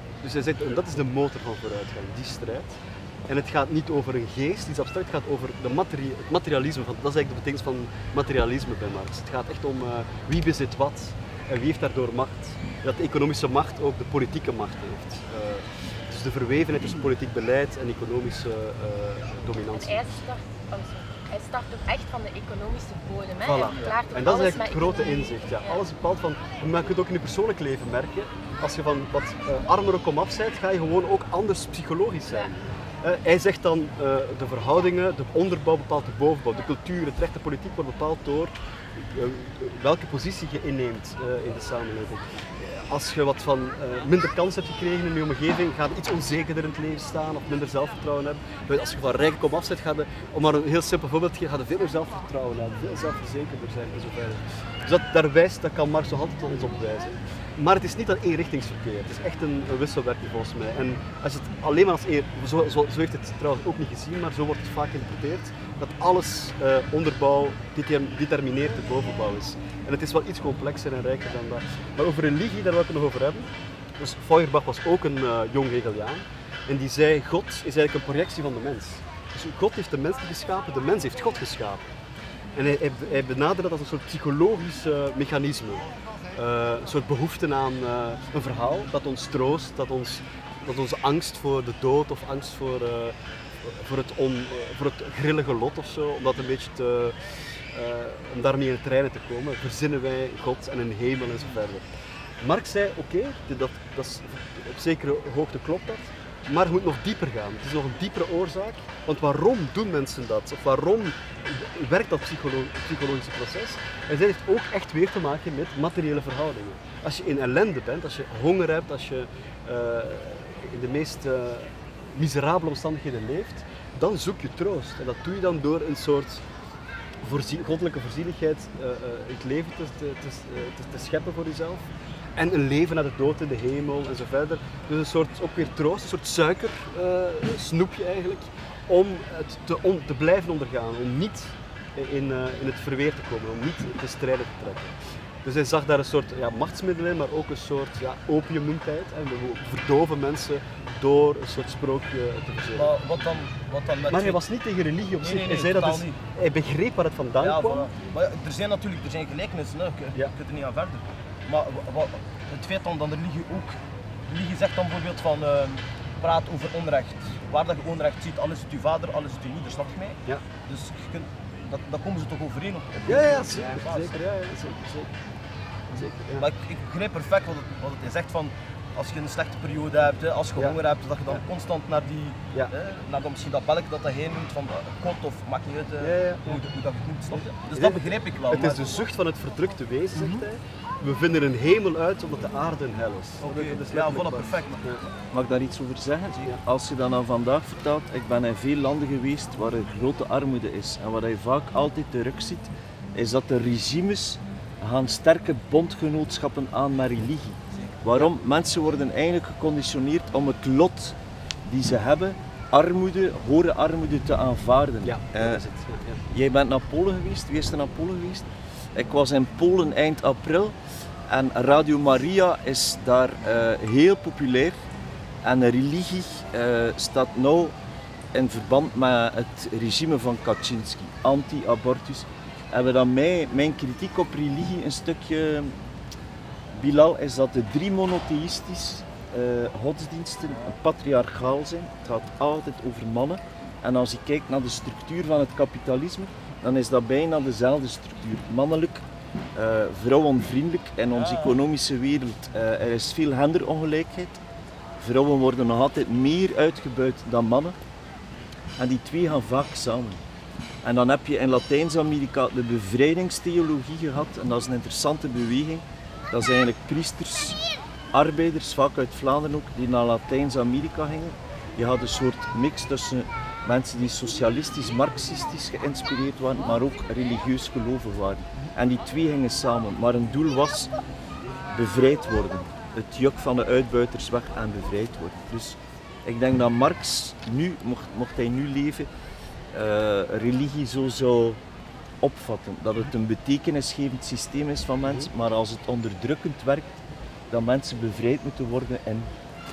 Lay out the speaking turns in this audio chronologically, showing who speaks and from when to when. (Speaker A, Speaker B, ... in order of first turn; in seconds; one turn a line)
Speaker A: 0.2-2.8
Speaker A: 3.3-20.0
Speaker B: 19.7-25.8
Speaker A: 23.4-81.9
Speaker A: 82.5-97.2
Speaker A: 97.7-101.8
Speaker A: 102.4-126.4
Speaker A: 127.2-144.9
Speaker A: 145.4-152.9
Speaker C: 152.7-154.4
Speaker A: 154.1-157.9
Speaker C: 155.2-156.2
Speaker C: 157.4-163.8
Speaker C: 164.3-174.2
Speaker A: 173.1-175.1
Speaker A: 175.9-176.4
Speaker C: 176.4-189.1
Speaker A: 186.0-186.6
Speaker A: 187.3-195.0
Speaker C: 190.1-190.4
Speaker C: 193.4-195.0
Speaker D: 195.3-215.6
Speaker A: 215.0-216.2
Speaker D: 216.3-220.8
Speaker D: 221.3-224.8
Speaker D: 225.4-227.7
Speaker D: 228.3-235.7
Speaker D: 236.7-249.0
Speaker D: 249.5-254.4
Speaker C: 251.1-251.5
Speaker D: 255.0-257.8
Speaker D: 258.8-260.2
Speaker D: 260.8-267.6
Speaker D: 268.1-280.9
Speaker D: 281.7-289.1
Speaker D: 289.7-291.6
Speaker D: 292.2-299.3